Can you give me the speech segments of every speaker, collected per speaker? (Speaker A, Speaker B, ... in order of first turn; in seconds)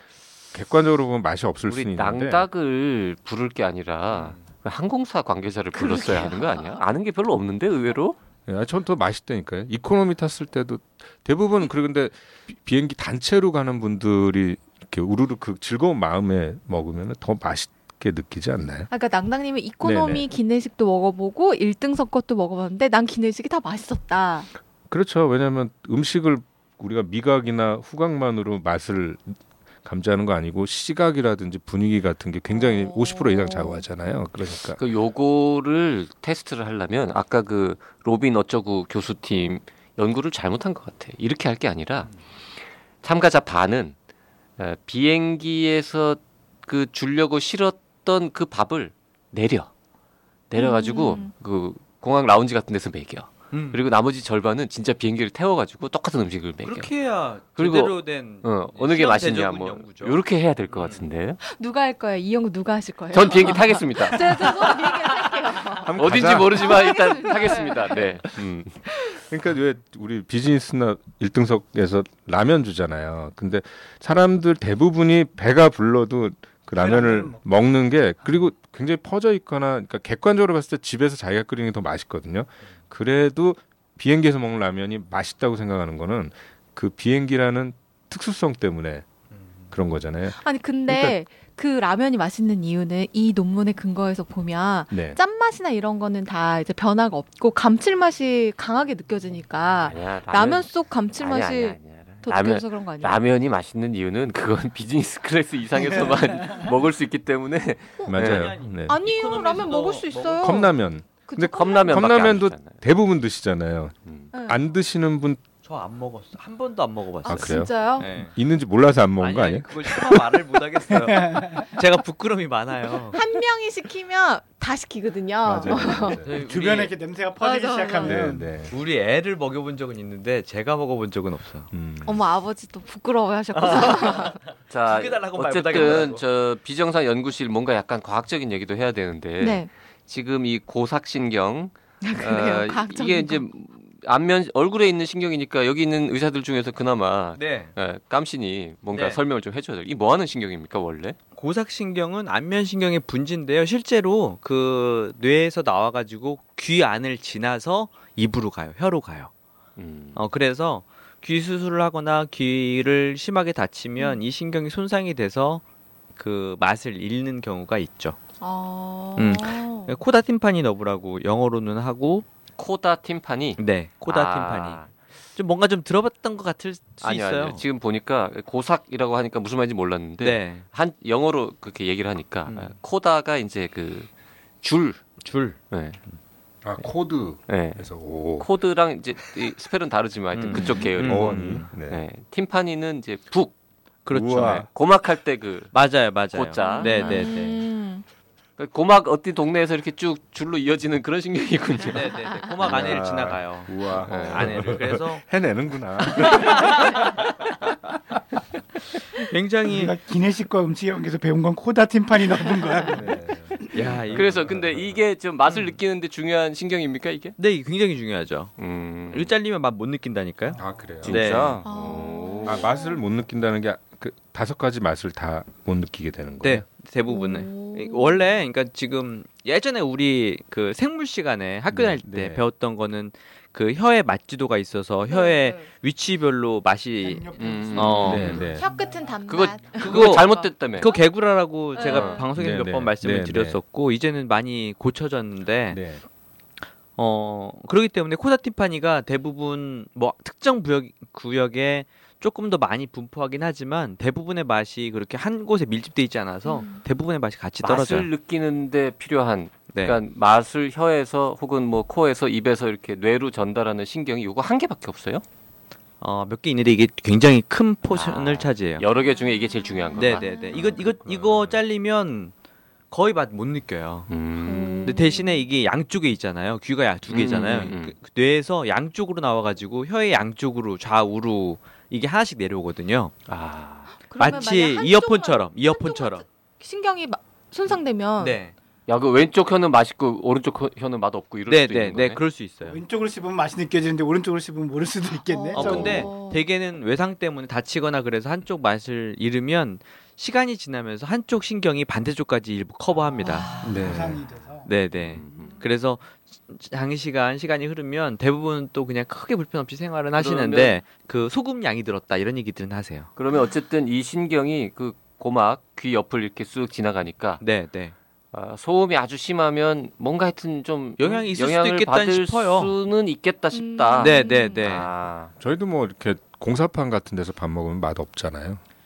Speaker A: 0.5-2.5, 8.5-18.9, 19.8-20.3, 24.9-34.8, 65.8-66.8, 69.2-89.1, 89.7-91.2, 94.9-95.2, 108.1-109.0, 110.4-113.9, 114.5-115.4, 117.3-120.2, 125.5-126.4, 128.0-128.7, 131.7-132.2, 186.6-188.5, 191.0-192.0, 194.1-194.7, 202.6-207.2, 212.9-214.9, 220.6-221.6, 222.4-226.7, 231.7-232.4, 238.1-238.7, 242.3-243.6, 245.7-246.0, 271.2-271.5, 303.6-304.2, 325.4-328.6
Speaker B: 1.7-8.2, 34.8-42.1, 43.0-44.0, 44.6-49.7, 50.5-56.9, 57.6-61.4, 63.1-64.8, 65.9-68.8, 99.9-108.5, 111.5-112.8, 134.7-151.2, 159.8-160.2, 172.6-174.9, 177.0-184.1, 184.6-185.1, 185.7-186.0, 187.5-187.9, 188.4-193.6, 194.3-197.3, 198.6-202.9, 204.0-204.7, 214.1-217.4, 218.6-219.3, 221.0-222.6, 237.4-238.5, 239.3-240.9, 241.8-242.2, 257.6-265.2, 267.9-271.0, 274.1-275.0, 277.1-277.9, 283.3-283.9, 288.9-292.2, 305.1-305.6, 310.2-310.8, 313.2-317.4, 318.3-325.3
Speaker C: 4.1-4.4, 53.5-53.8, 56.6-60.2, 60.7-61.0, 108.2-110.6, 115.6-118.4, 119.2-123.2, 126.2-126.9, 128.6-131.7, 133.5-136.2, 147.4-147.7, 148.9-149.2, 151.4-159.3, 160.2-165.6, 166.2-168.2, 169.2-172.2, 173.6-174.8, 175.4-177.6, 180.2-180.6, 182.5-182.7, 185.2-185.6, 190.3-191.7, 194.1-194.7, 195.7-197.6, 201.9-205.2, 206.2-207.1, 209.2-209.9, 213.7-214.5, 217.4-218.5, 219.1-221.6, 226.4-238.4, 239.8-245.8, 247.0-258.1, 259.7-260.0, 266.0-268.9, 270.0-272.3, 272.9-274.1, 274.8-283.1, 284.2-286.2, 288.2-288.5, 291.5-292.8, 295.5-303.6, 304.7-313.1, 317.4-317.9, 321.0-322.7, 324.0-324.9
Speaker D: 5.8-6.8, 18.9-24.5, 32.5-33.9, 50.6-51.3, 61.4-68.1, 68.9-69.2, 90.4-103.2, 108.9-110.7, 111.3-112.1, 114.3-114.6, 117.2-118.1, 123.1-126.2, 127.4-128.2, 132.1-134.4, 139.4-139.7, 142.0-143.5, 168.4-170.0, 196.6-198.0, 221.6-223.0, 227.1-228.2, 235.1-235.7, 238.2-241.1, 241.7-242.3, 256.4-256.8, 269.2-270.8, 274.4-275.5, 284.0-288.4, 295.2-296.4, 323.5-324.7
Speaker E: 76.8-77.4, 120.9-121.7, 126.3-128.5, 209.7-213.2, 237.0-239.5, 292.6-296.1, 303.7-304.7